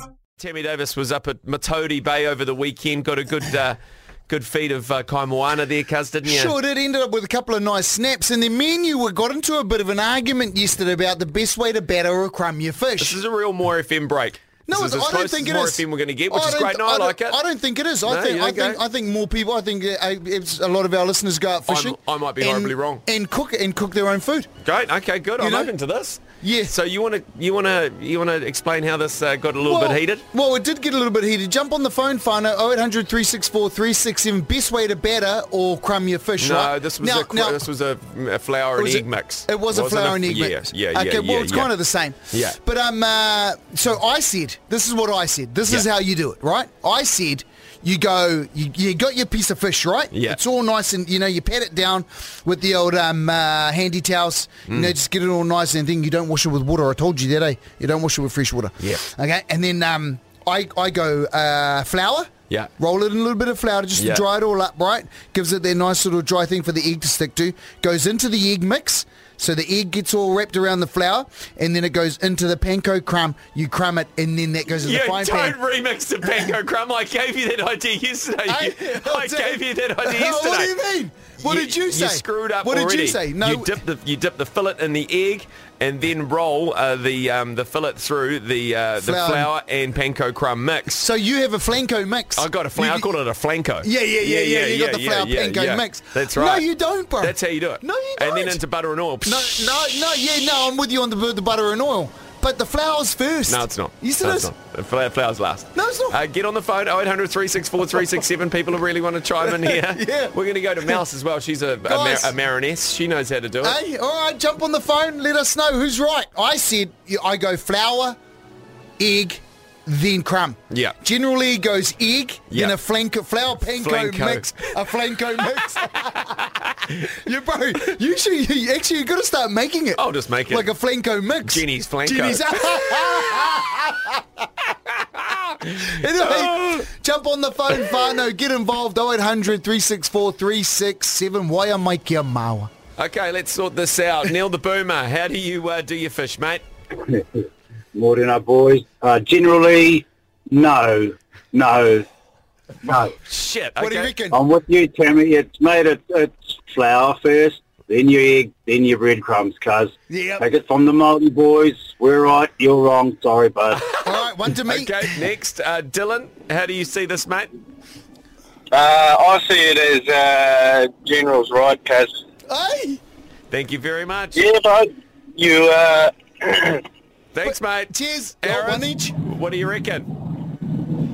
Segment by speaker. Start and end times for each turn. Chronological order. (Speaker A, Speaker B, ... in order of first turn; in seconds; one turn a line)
Speaker A: 0.4-3.8
Speaker A: 4.3-6.5
Speaker B: 6.2-13.2
Speaker A: 13.0-17.4
Speaker B: 14.7-24.5
Speaker A: 18.0-18.8
Speaker A: 21.7-23.0
Speaker A: 24.6-30.2
Speaker B: 25.4-25.7
Speaker B: 26.4-26.7
Speaker B: 29.6-37.7
Speaker A: 36.4-41.7
Speaker B: 38.8-75.6
Speaker A: 42.3-42.6
Speaker A: 50.1-50.4
Speaker A: 64.0-64.2
Speaker A: 74.7-80.7
Speaker B: 78.5-83.8
Speaker A: 81.4-91.0
Speaker B: 89.0-89.5
Speaker B: 91.0-93.1
Speaker A: 92.4-99.7
Speaker B: 93.8-98.6
Speaker B: 99.2-104.5
Speaker A: 103.5-113.8
Speaker B: 105.8-106.2
Speaker B: 109.5-111.0
Speaker B: 111.8-112.3
Speaker B: 113.6-118.2
Speaker B: 119.0-134.2
Speaker A: 120.7-121.0
Speaker A: 122.5-122.8
Speaker A: 123.7-124.7
Speaker A: 130.0-130.7
Speaker A: 131.4-132.4
Speaker A: 135.2-136.8
Speaker B: 135.8-142.7
Speaker A: 143.0-146.6
Speaker C: 147.9-152.1
Speaker C: 152.8-153.1
Speaker A: 153.2-154.2
Speaker B: 153.8-154.4
Speaker C: 154.3-163.9
Speaker B: 160.1-160.5
Speaker B: 164.0-165.2
Speaker A: 164.7-167.5
Speaker D: 168.7-172.2
Speaker B: 172.5-173.0
Speaker A: 173.5-174.4
Speaker D: 174.3-176.8
Speaker A: 177.3-180.1
Speaker B: 177.4-179.1